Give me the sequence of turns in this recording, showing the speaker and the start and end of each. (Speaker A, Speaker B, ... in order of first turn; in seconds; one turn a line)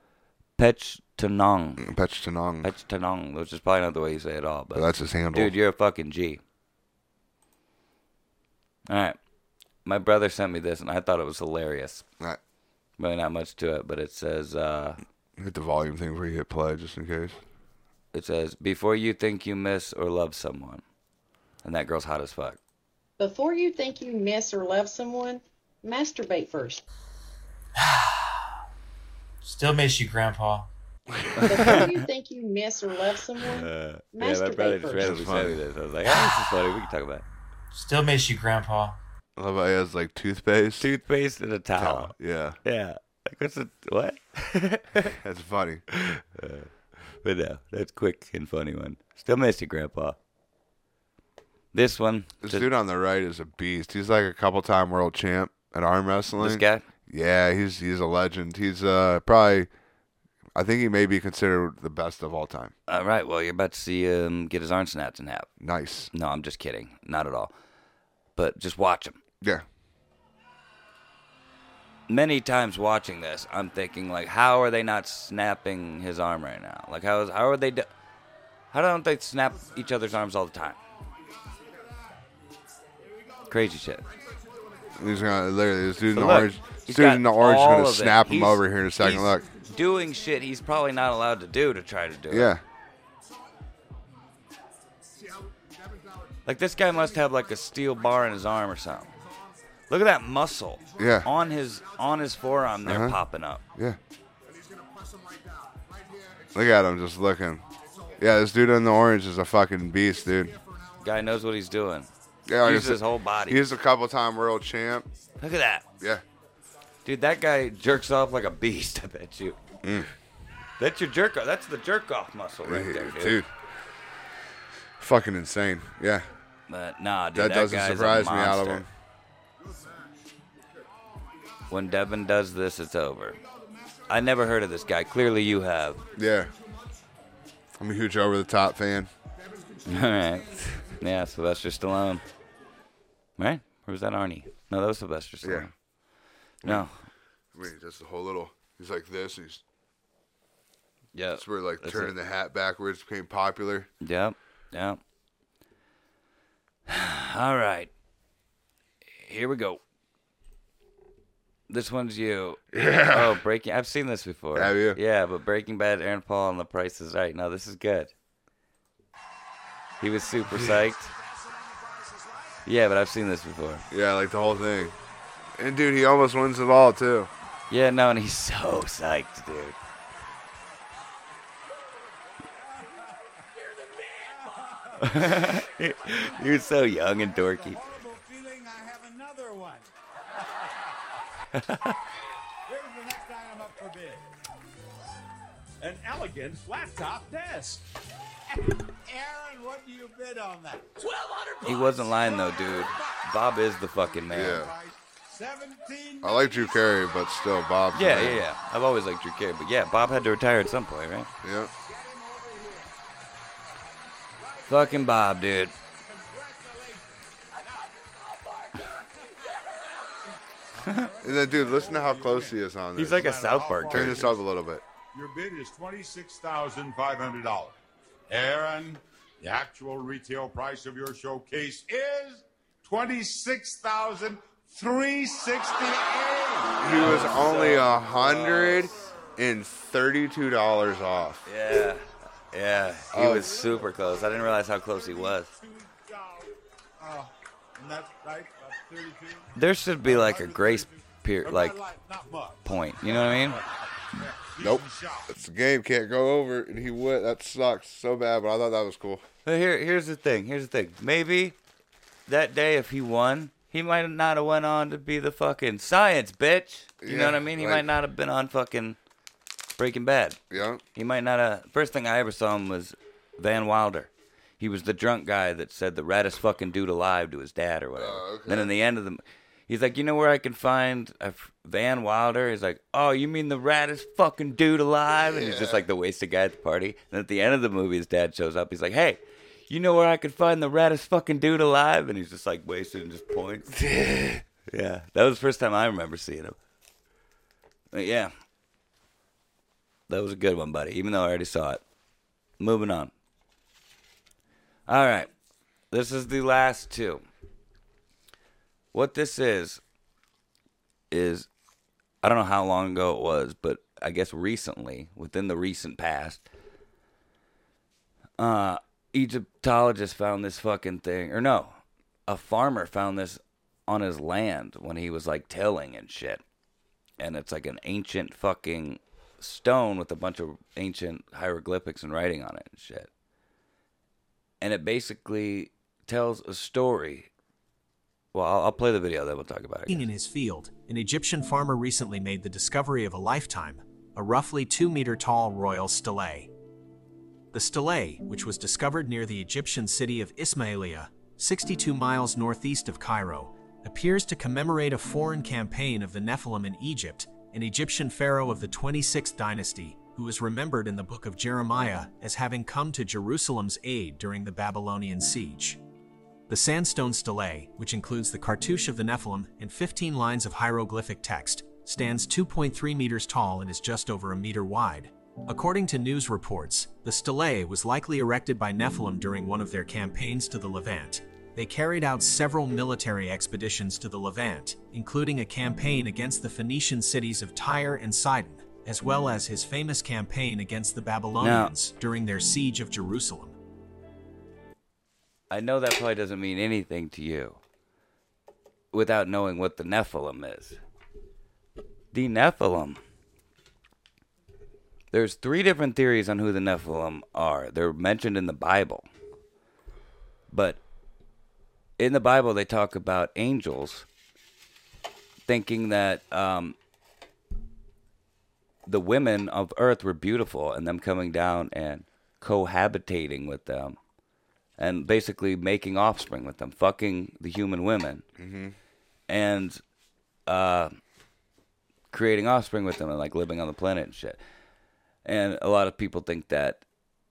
Speaker A: 0.6-1.9
Speaker B: 1.8-2.7
Speaker A: 2.6-6.4
Speaker B: 4.7-5.6
Speaker A: 8.9-9.2
Speaker A: 9.8-12.1
Speaker A: 13.0-15.0
Speaker B: 15.4-17.4
Speaker A: 18.1-20.8
Speaker A: 21.6-22.6
Speaker C: 23.2-26.8
Speaker D: 27.8-28.6
Speaker D: 29.4-30.7
Speaker B: 31.1-31.9
Speaker C: 31.4-35.2
Speaker A: 31.5-32.0
Speaker A: 33.5-37.2
Speaker B: 35.0-35.6
Speaker D: 37.7-39.0
Speaker B: 39.4-40.9
Speaker A: 40.8-45.2
Speaker B: 41.8-42.6
Speaker B: 45.1-45.9
Speaker A: 46.3-50.2
Speaker A: 51.7-52.7
Speaker B: 52.4-59.7
Speaker A: 56.4-56.9
Speaker B: 60.6-62.7
Speaker A: 62.9-65.5
Speaker B: 65.6-66.1
Speaker A: 66.1-67.5
Speaker A: 68.4-69.2
Speaker A: 72.1-77.9
Speaker A: 78.7-80.8
Speaker A: 83.5-84.0
Speaker B: 85.0-89.5
Speaker A: 86.1-92.5
Speaker B: 92.3-92.6
Speaker A: 96.5-99.1
Speaker A: 99.9-103.6
Speaker B: 101.0-101.3
Speaker B: 102.8-103.2
Speaker B: 106.5-107.6
Speaker B: 108.2-110.6
Speaker A: 111.0-112.1
Speaker B: 112.5-115.1
Speaker A: 112.6-113.6
Speaker A: 115.4-115.8
Speaker A: 117.0-119.6
Speaker B: 119.8-120.1
Speaker A: 120.8-123.4
Speaker B: 122.7-123.5
Speaker B: 125.0-126.3
Speaker A: 126.7-128.9
Speaker B: 127.3-128.9
Speaker A: 131.7-133.4
Speaker A: 134.1-136.0
Speaker B: 136.2-136.5
Speaker B: 137.8-139.1
Speaker A: 139.8-142.2
Speaker A: 143.4-145.7
Speaker B: 145.4-145.7
Speaker B: 146.6-146.9
Speaker A: 146.6-147.1
Speaker B: 147.5-149.6
Speaker A: 151.1-152.1
Speaker B: 151.4-153.9
Speaker A: 154.0-155.0
Speaker A: 156.9-157.9
Speaker A: 159.2-159.8
Speaker A: 161.7-168.1
Speaker B: 162.7-163.4
Speaker B: 164.5-165.0
Speaker A: 170.0-171.1
Speaker A: 172.7-173.8
Speaker B: 173.9-175.0
Speaker B: 175.6-177.3
Speaker A: 177.7-179.8
Speaker E: 182.7-183.2
Speaker E: 184.0-189.9
Speaker A: 185.0-187.8
Speaker E: 190.4-190.9
Speaker A: 191.5-192.0
Speaker E: 192.7-194.3
Speaker E: 195.8-197.9
Speaker E: 198.5-203.2
Speaker A: 201.6-204.6
Speaker B: 204.3-204.7
Speaker E: 204.3-207.1
Speaker B: 206.2-208.4
Speaker A: 207.9-211.3
Speaker B: 211.4-211.7
Speaker E: 211.8-212.9
Speaker E: 214.4-215.1
Speaker A: 214.7-215.7
Speaker E: 216.1-217.2
Speaker E: 218.5-219.0
Speaker E: 220.7-224.4
Speaker B: 221.2-223.3
Speaker A: 223.0-224.3
Speaker B: 223.9-224.8
Speaker E: 225.1-227.8
Speaker E: 228.3-238.0
Speaker B: 236.8-241.5
Speaker A: 237.0-238.8
Speaker A: 241.5-245.5
Speaker B: 243.1-243.5
Speaker E: 243.1-249.5
Speaker A: 249.6-251.8
Speaker E: 250.0-255.3
Speaker A: 252.7-253.6
Speaker B: 254.6-259.2
Speaker A: 259.4-261.6
Speaker A: 262.3-269.0
Speaker B: 267.0-267.9
Speaker A: 269.8-270.4
Speaker B: 270.5-270.8
Speaker A: 270.9-296.6
Speaker B: 278.0-278.7
Speaker B: 285.2-285.8
Speaker A: 297.9-298.3
Speaker A: 300.1-301.8
Speaker A: 302.6-303.1
Speaker A: 304.9-305.3
Speaker A: 305.9-307.2
Speaker A: 308.9-309.8
Speaker A: 311.1-311.5
Speaker A: 312.2-316.4
Speaker A: 318.4-326.4
Speaker A: 327.2-333.1
Speaker A: 334.6-337.3
Speaker A: 338.3-340.1
Speaker F: 339.9-346.5
Speaker F: 347.5-365.8
Speaker F: 366.5-393.6
Speaker A: 391.4-391.7
Speaker A: 395.5-397.6
Speaker A: 398.9-400.8
Speaker A: 402.1-403.0
Speaker A: 405.1-409.1
Speaker A: 410.5-410.8
Speaker A: 412.0-414.1
Speaker A: 415.5-416.8
Speaker A: 418.9-424.0
Speaker A: 424.8-428.2
Speaker B: 428.4-428.8
Speaker A: 429.3-429.8
Speaker A: 430.5-430.9
Speaker A: 432.1-434.4
Speaker A: 435.2-436.8